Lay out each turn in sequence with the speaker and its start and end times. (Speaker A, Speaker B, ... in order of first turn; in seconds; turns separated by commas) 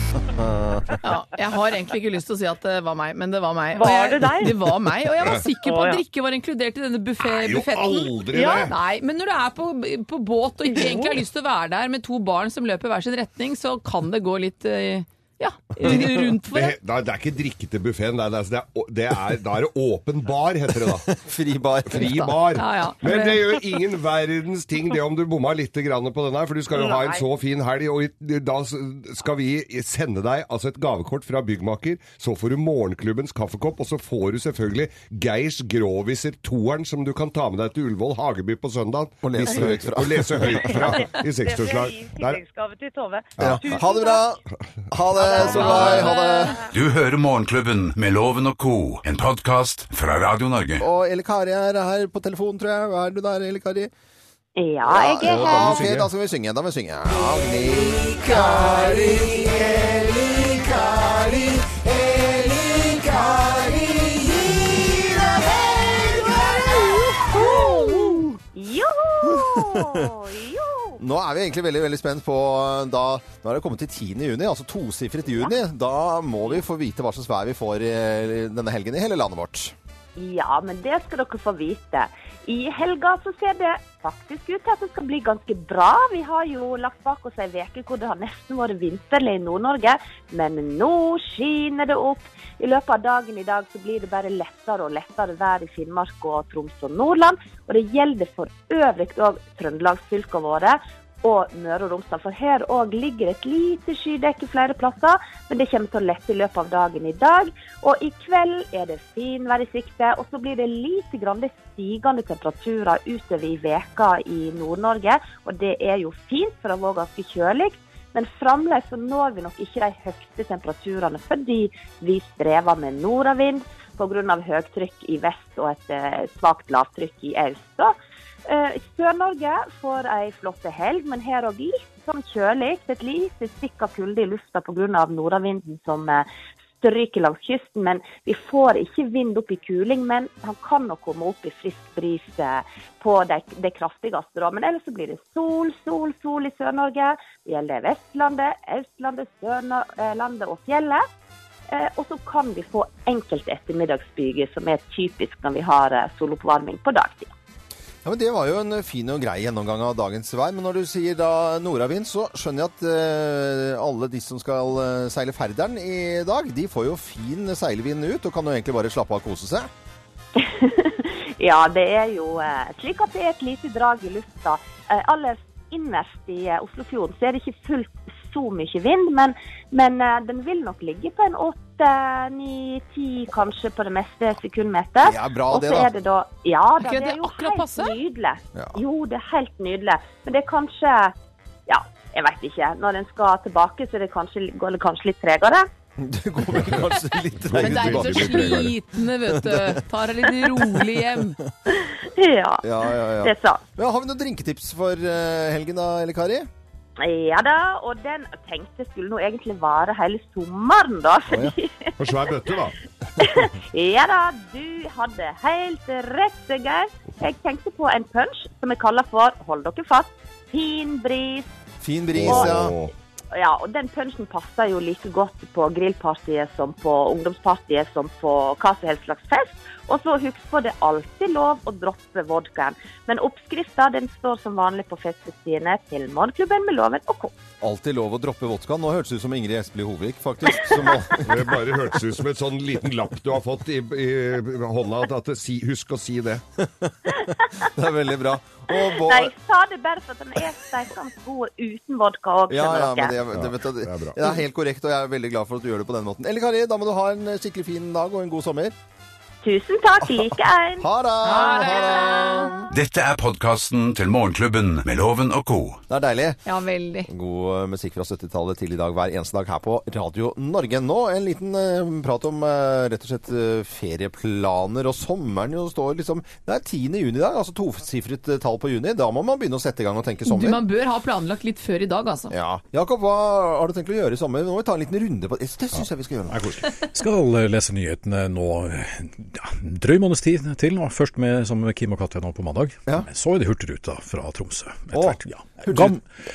Speaker A: 0.3-0.9, Speaker B: 1.0-16.8, Speaker C: 3.7-4.7, Speaker C: 5.6-6.0, Speaker D: 7.2-8.8, Speaker C: 8.3-8.7, Speaker C: 10.7-11.2, Speaker D: 15.8-21.1, Speaker A: 21.1-22.4, Speaker D: 21.9-42.4, Speaker B: 22.0-23.4, Speaker C: 26.7-27.3, Speaker A: 39.2-41.1, Speaker C: 40.6-44.3, Speaker D: 43.4-43.7, Speaker A: 43.4-46.6, Speaker C: 45.2-46.7, Speaker B: 45.3-46.5, Speaker E: 46.7-50.9, Speaker A: 50.8-53.9, Speaker F: 54.6-55.7, Speaker A: 54.9-59.6, Speaker D: 55.2-56.1, Speaker A: 60.5-61.1, Speaker F: 67.3-71.0, Speaker A: 69.3-70.1, Speaker A: 71.0-79.7, Speaker F: 80.2-128.0, Speaker F: 128.5-136.3, Speaker F: 136.8-151.0, Speaker F: 151.7-157.3, Speaker A: 158.0-169.7, Speaker F: 170.4-191.2, Speaker A: 185.0-185.9, Speaker B: 186.8-188.0, Speaker F: 191.7-195.7, Speaker A: 196.0-198.7, Speaker D: 197.4-198.8, Speaker B: 197.5-201.4, Speaker A: 199.3-199.8, Speaker F: 201.7-203.6, Speaker A: 202.6-206.5, Speaker F: 207.0-211.9, Speaker A: 211.3-211.6, Speaker D: 212.0-212.8, Speaker F: 213.2-221.5, Speaker A: 221.8-222.8, Speaker D: 222.2-222.9, Speaker F: 223.3-237.3, Speaker A: 237.6-241.6, Speaker D: 241.2-246.4, Speaker A: 246.7-249.3, Speaker F: 248.7-253.2, Speaker A: 252.5-258.7, Speaker D: 253.3-254.2, Speaker F: 259.4-260.9, Speaker A: 260.0-262.7, Speaker B: 261.2-262.5, Speaker E: 262.7-265.8, Speaker A: 265.9-266.4, Speaker B: 266.5-267.1, Speaker A: 267.1-280.6, Speaker B: 280.3-282.3, Speaker A: 282.3-286.6, Speaker G: 286.4-296.1, Speaker A: 294.9-296.0